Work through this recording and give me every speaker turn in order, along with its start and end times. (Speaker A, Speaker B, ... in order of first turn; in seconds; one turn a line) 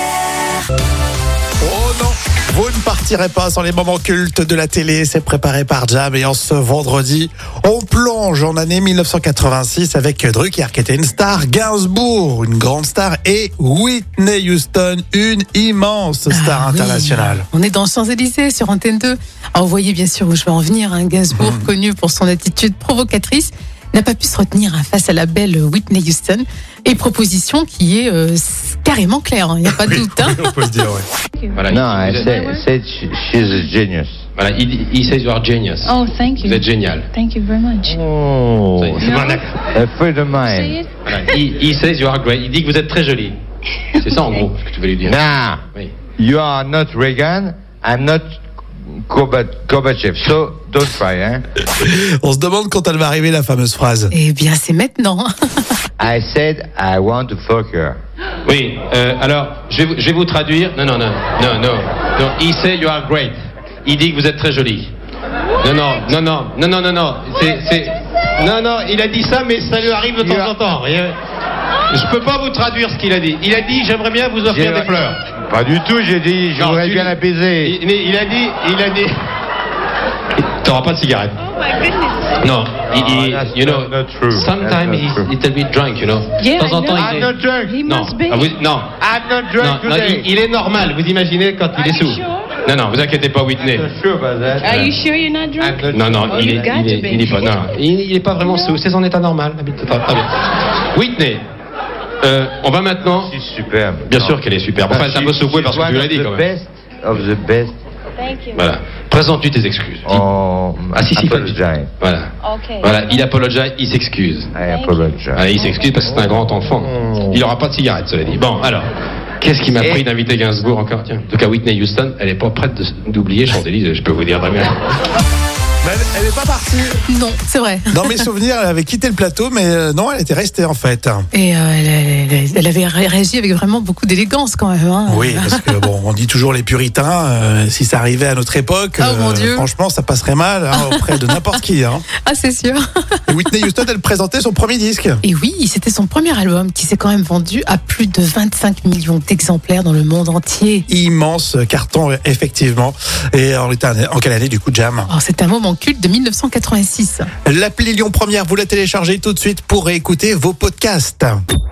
Speaker A: 1.6-17.5
Speaker B: 16.3-30.5
Speaker A: 21.4-21.7
Speaker A: 29.7-31.1
Speaker C: 31.5-32.4
Speaker D: 31.7-34.2
Speaker E: 32.2-32.6
Speaker C: 34.4-37.1
Speaker E: 35.8-38.0
Speaker D: 37.9-40.8
Speaker C: 38.8-39.6
Speaker E: 39.0-39.4
Speaker E: 40.3-40.9
Speaker C: 41.0-43.4
Speaker C: 43.9-45.9
Speaker D: 45.0-45.6
Speaker D: 46.2-48.3
Speaker D: 48.9-51.4
Speaker A: 51.8-54.1
Speaker B: 54.1-55.3
Speaker D: 56.0-58.0
Speaker C: 58.5-64.9
Speaker C: 65.6-71.2
Speaker D: 70.2-70.5
Speaker C: 71.9-75.2
Speaker D: 74.5-77.8
Speaker C: 76.6-79.2
Speaker C: 80.4-81.4
Speaker E: 81.8-82.3
Speaker C: 82.4-87.3
Speaker D: 82.9-85.3
Speaker E: 86.4-88.5
Speaker D: 86.9-87.8
Speaker C: 87.8-88.9
Speaker D: 89.0-90.3
Speaker C: 89.6-93.9
Speaker E: 91.9-92.5
Speaker D: 93.6-95.0
Speaker E: 94.6-97.4
Speaker D: 95.6-97.4
Speaker C: 95.9-100.3
Speaker C: 100.9-101.4
Speaker C: 102.2-103.3
Speaker D: 103.2-107.8
Speaker C: 104.1-106.5
Speaker C: 108.5-110.3
Speaker D: 110.1-111.9
Speaker C: 110.9-114.5
Speaker D: 114.5-115.5
Speaker E: 114.7-114.9
Speaker C: 115.3-118.9
Speaker D: 116.1-117.4
Speaker C: 119.4-124.8
Speaker D: 119.7-120.0
Speaker A: 125.8-127.0
Speaker B: 127.1-128.3
Speaker A: 127.9-131.3
Speaker B: 131.3-135.7
Speaker A: 135.1-142.1
Speaker B: 139.0-139.7
Speaker B: 140.8-141.3
Speaker B: 142.2-142.8
Speaker A: 143.3-145.2
Speaker B: 145.2-150.9
Speaker A: 150.9-155.1
Speaker B: 155.1-157.3
Speaker A: 157.4-161.4